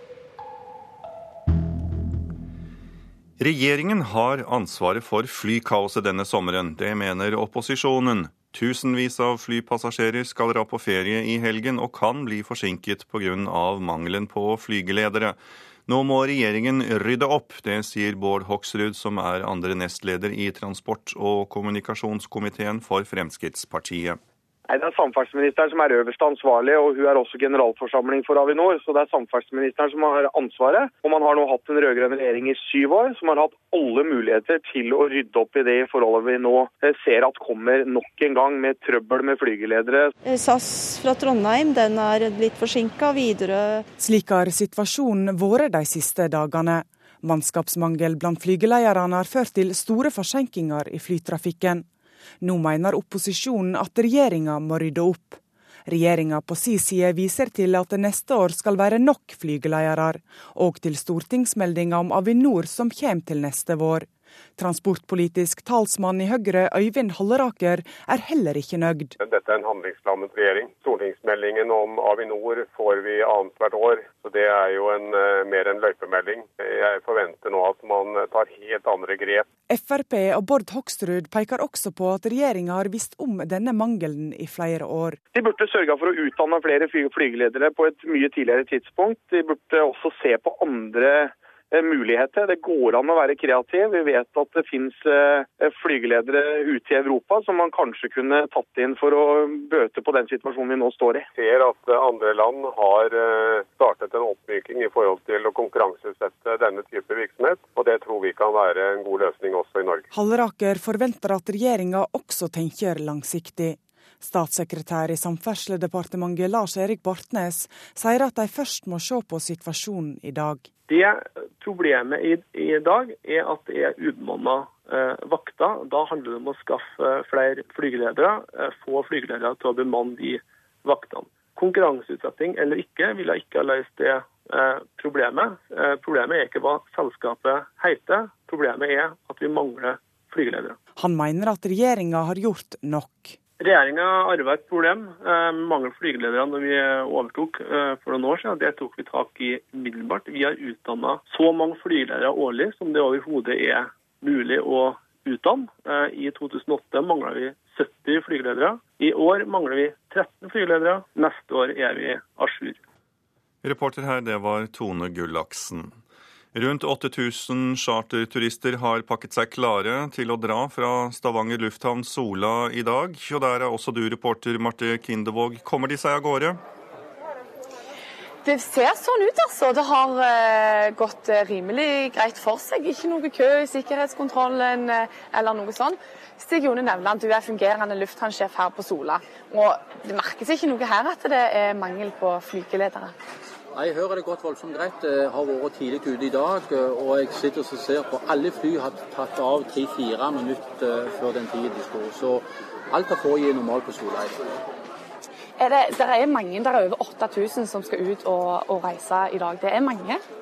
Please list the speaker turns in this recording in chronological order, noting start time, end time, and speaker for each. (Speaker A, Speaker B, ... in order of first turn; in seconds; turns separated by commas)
Speaker A: 3.4-24.2, Speaker B: 24.7-40.1, Speaker C: 40.2-43.9, Speaker D: 44.0-51.9, Speaker D: 52.4-69.1, Speaker E: 69.2-79.5, Speaker D: 79.7-85.2, Speaker B: 85.3-101.3, Speaker E: 101.3-110.1, Speaker D: 110.1-120.7, Speaker F: 120.9-140.8, Speaker D: 140.9-143.4, Speaker F: 143.6-162.8, Speaker A: 163.6-166.0, Speaker A: 166.5-176.6, Speaker G: 178.4-193.1, Speaker H: 193.7-204.6, Speaker G: 205.6-210.2